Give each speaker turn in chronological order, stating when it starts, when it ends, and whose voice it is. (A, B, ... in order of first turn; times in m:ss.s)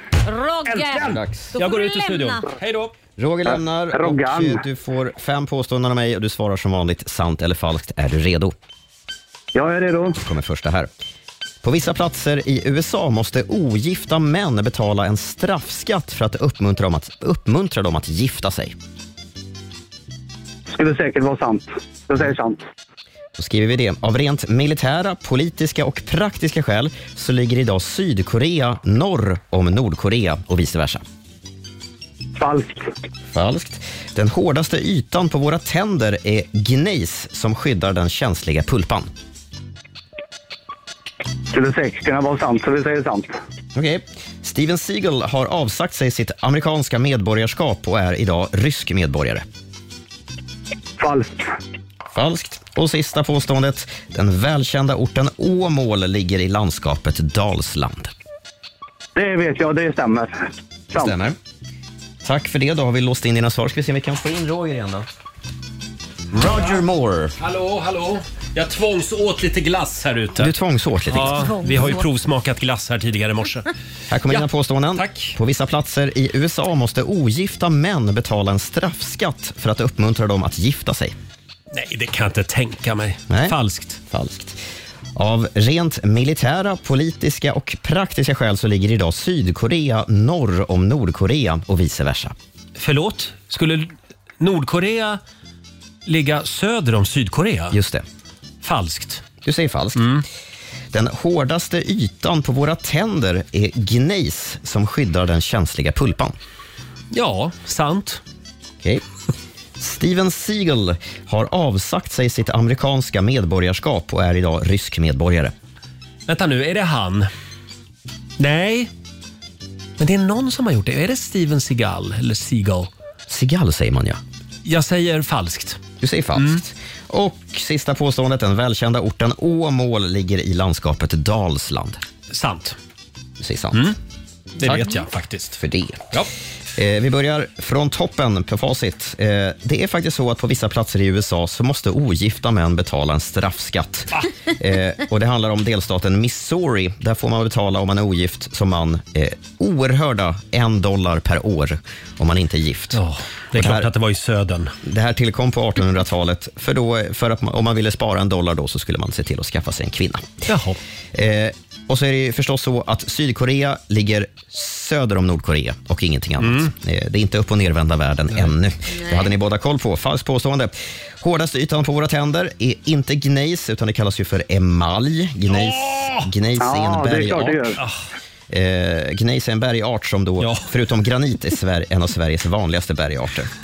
0:00.2-0:02.5 A
0:00.7-0:03.0 B
0:01.1-0:01.5 C
0:03.2-0:08.5 C
0:03.5-0:04.6 D
0:09.5-0:10.2 D
0:10.2-0:10.9 C
0:11.6-0:18.8 C
0:20.7-0:22.6 D
0:23.4-0:31.0 C
0:32.4-0:32.9 D
0:33.3-0:39.1 C
0:41.5-0:43.4 D
0:43.8-0:49.4 C
0:51.0-0:51.5 D
0:52.1-0:58.1 C
0:59.2-1:01.1 D
1:01.0-1:01.4 C
1:02.2-1:05.1 C
1:06.3-1:07.4 C
1:06.4-1:06.8 B
1:07.4-1:10.5 B
1:10.4-1:11.5 C
1:11.1-1:13.7 B
1:11.3-1:12.1 A
1:14.1-1:21.1 C
1:14.3-1:15.4 B
1:21.7-1:24.0 B
1:23.3-1:23.6 C
1:24.1-1:24.6 C
1:25.2-1:32.4 C
1:32.8-1:35.2 B
1:36.1-1:37.8 B
1:37.7-1:38.0 C
1:38.6-1:39.2 B
1:39.4-1:40.2 C
1:40.0-1:40.2 B
1:40.9-1:46.4 C
1:47.1-1:48.2 B
1:49.8-1:55.5 C
1:56.3-1:57.3 B
1:58.4-1:58.9 B
2:00.0-2:02.9 B
2:03.3-2:04.2 C
2:04.6-2:05.8 B
2:06.0-2:12.0 C
2:12.3-2:12.8 B
2:13.4-2:13.9 C
2:14.6-2:15.6 B
2:15.6-2:16.2 C
2:16.8-2:33.0 C
2:32.9-2:34.7 B
2:33.5-2:33.9 C
2:34.8-2:40.3 C
2:40.5-2:40.8 B
2:41.1-2:57.8 C
2:46.4-2:46.7 B
2:55.5-2:56.3 B
2:56.6-2:57.8 D
2:58.5-3:03.5 C
3:00.4-3:00.7 B